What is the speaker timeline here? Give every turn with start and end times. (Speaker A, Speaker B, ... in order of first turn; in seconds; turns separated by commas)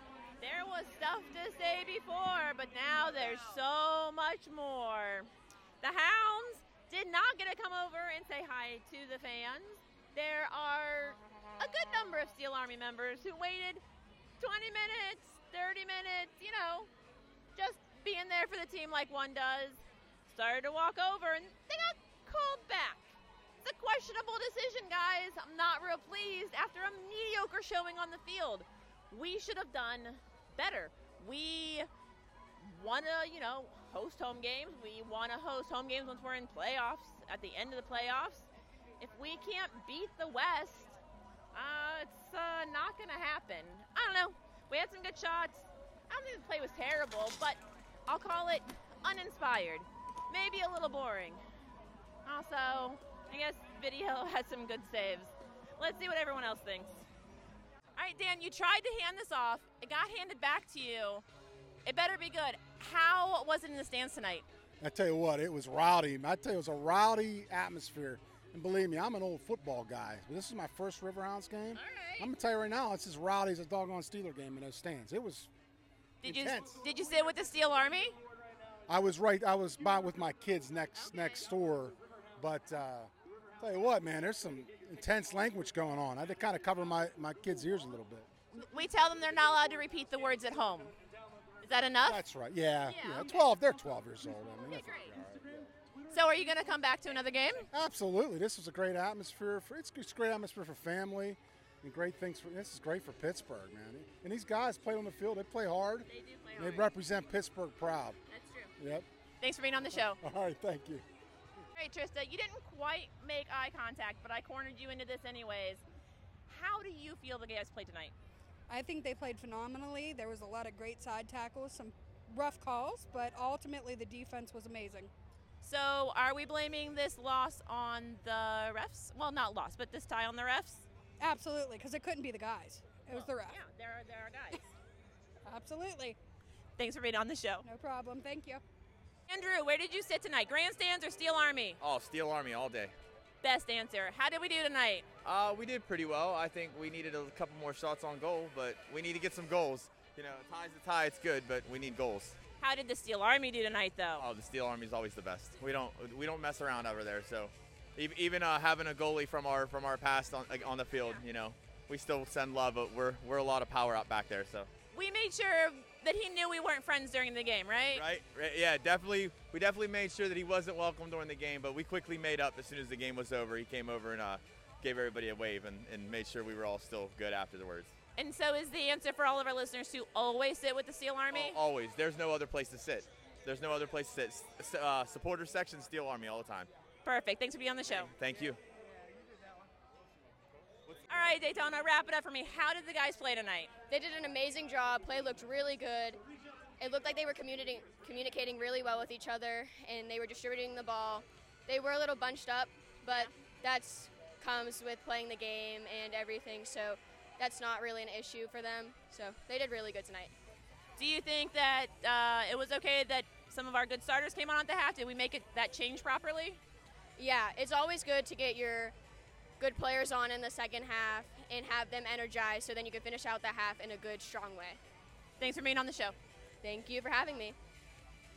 Speaker A: 0.4-5.3, Speaker A: 5.8-13.8, Speaker A: 14.4-16.9, Speaker A: 17.6-31.9, Speaker A: 32.6-38.5, Speaker A: 39.0-41.0, Speaker A: 41.5-51.4, Speaker A: 52.2-57.0, Speaker A: 58.0-61.2, Speaker A: 61.9-64.5, Speaker B: 64.8-75.5, Speaker A: 71.8-72.3, Speaker A: 76.2-78.2, Speaker B: 76.2-76.8, Speaker B: 78.9-88.3, Speaker A: 88.5-90.9, Speaker A: 91.6-92.2, Speaker B: 92.0-95.7, Speaker A: 92.8-93.5, Speaker A: 94.7-95.2, Speaker A: 96.1-97.7, Speaker B: 97.7-108.2, Speaker A: 106.1-106.9, Speaker A: 108.3-108.7, Speaker B: 108.8-109.0, Speaker A: 109.4-110.2, Speaker B: 110.2-111.0, Speaker A: 111.8-115.8, Speaker A: 116.5-118.1, Speaker C: 118.7-125.1, Speaker A: 125.6-130.9, Speaker C: 131.2-133.6, Speaker A: 133.1-134.7, Speaker C: 135.4-136.2, Speaker A: 136.8-137.6, Speaker C: 137.6-138.6, Speaker A: 139.3-141.8, Speaker D: 141.8-142.9, Speaker A: 143.4-145.1, Speaker D: 145.2-152.4, Speaker A: 152.6-154.2, Speaker D: 154.2-164.7, Speaker A: 164.9-168.1, Speaker D: 167.9-177.9, Speaker A: 178.2-181.6, Speaker D: 181.3-186.7, Speaker A: 187.1-188.1, Speaker D: 187.9-188.6, Speaker A: 191.1-193.7, Speaker E: 193.9-196.2, Speaker E: 196.8-210.3, Speaker A: 211.0-216.6, Speaker E: 217.2-218.9, Speaker E: 219.6-224.8, Speaker A: 225.4-226.2, Speaker E: 226.6-227.6